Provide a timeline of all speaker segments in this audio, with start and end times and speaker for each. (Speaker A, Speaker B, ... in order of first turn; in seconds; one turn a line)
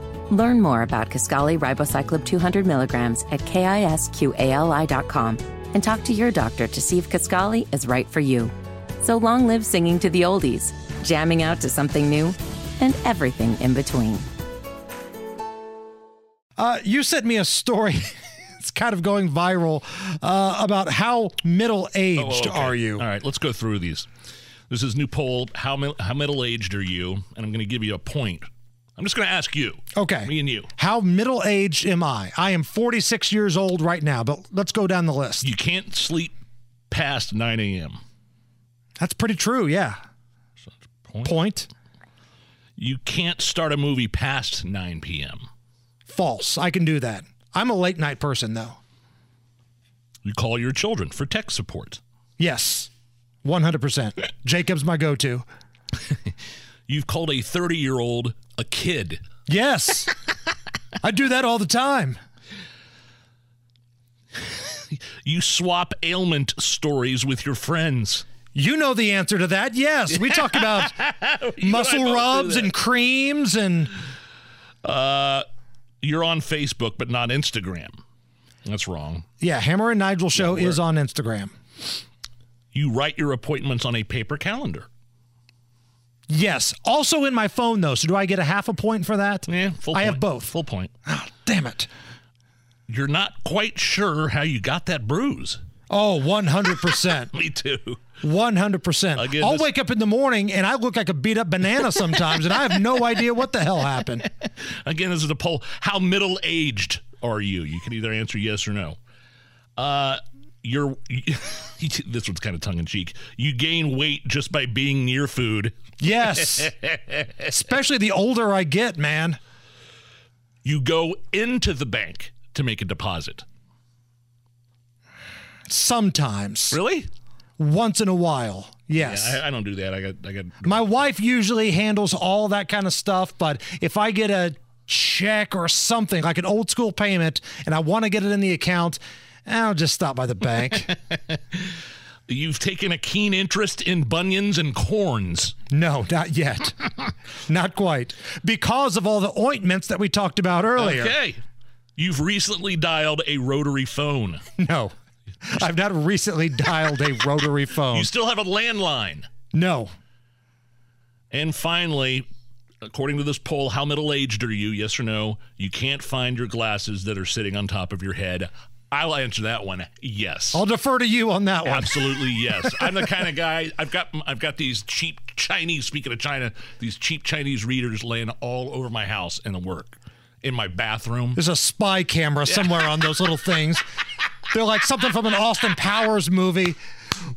Speaker A: 0.3-14.2
Speaker B: 16.6-23.1
Speaker C: 22.2-24.1
Speaker C: 24.7-28.5
Speaker C: 29.0-30.7
Speaker B: 29.9-35.5
Speaker C: 35.4-36.3
Speaker C: 36.9-38.0
Speaker B: 39.0-40.0
Speaker C: 40.6-41.3
Speaker B: 41.2-41.7
Speaker C: 42.8-45.5
Speaker B: 46.1-48.8
Speaker C: 50.2-52.0
Speaker B: 52.4-52.9
Speaker B: 53.4-55.5
Speaker C: 56.9-59.2
Speaker B: 59.5-60.1
Speaker B: 61.0-62.2
Speaker C: 64.5-68.2
Speaker B: 68.5-71.0
Speaker C: 70.2-72.7
Speaker B: 71.6-73.9
Speaker C: 74.8-75.5
Speaker C: 76.0-78.0
Speaker C: 78.7-79.2
Speaker B: 79.4-81.5
Speaker C: 80.4-80.8
Speaker C: 82.7-84.9
Speaker B: 86.3-90.5
Speaker C: 89.5-90.9
Speaker B: 91.1-91.9
Speaker C: 92.9-95.6
Speaker B: 95.9-97.3
Speaker C: 96.9-98.1
Speaker B: 98.2-104.3
Speaker C: 99.2-99.7
Speaker C: 104.6-109.0
Speaker C: 109.8-115.7
Speaker B: 116.0-116.7
Speaker B: 117.4-119.4
Speaker C: 120.6-123.5
Speaker B: 125.7-126.8
Speaker C: 126.7-127.1
Speaker B: 127.6-129.4
Speaker C: 128.9-130.9
Speaker B: 130.6-140.9
Speaker C: 142.3-145.5
Speaker B: 145.7-146.8
Speaker B: 147.5-151.1
Speaker C: 150.8-151.4
Speaker C: 152.0-154.4
Speaker B: 154.6-154.9
Speaker B: 155.4-158.1
Speaker C: 157.9-159.3
Speaker B: 159.5-159.9
Speaker C: 161.3-162.2
Speaker C: 162.8-170.6
Speaker B: 170.5-172.7
Speaker C: 171.6-181.4
Speaker B: 181.3-183.8
Speaker B: 184.5-186.8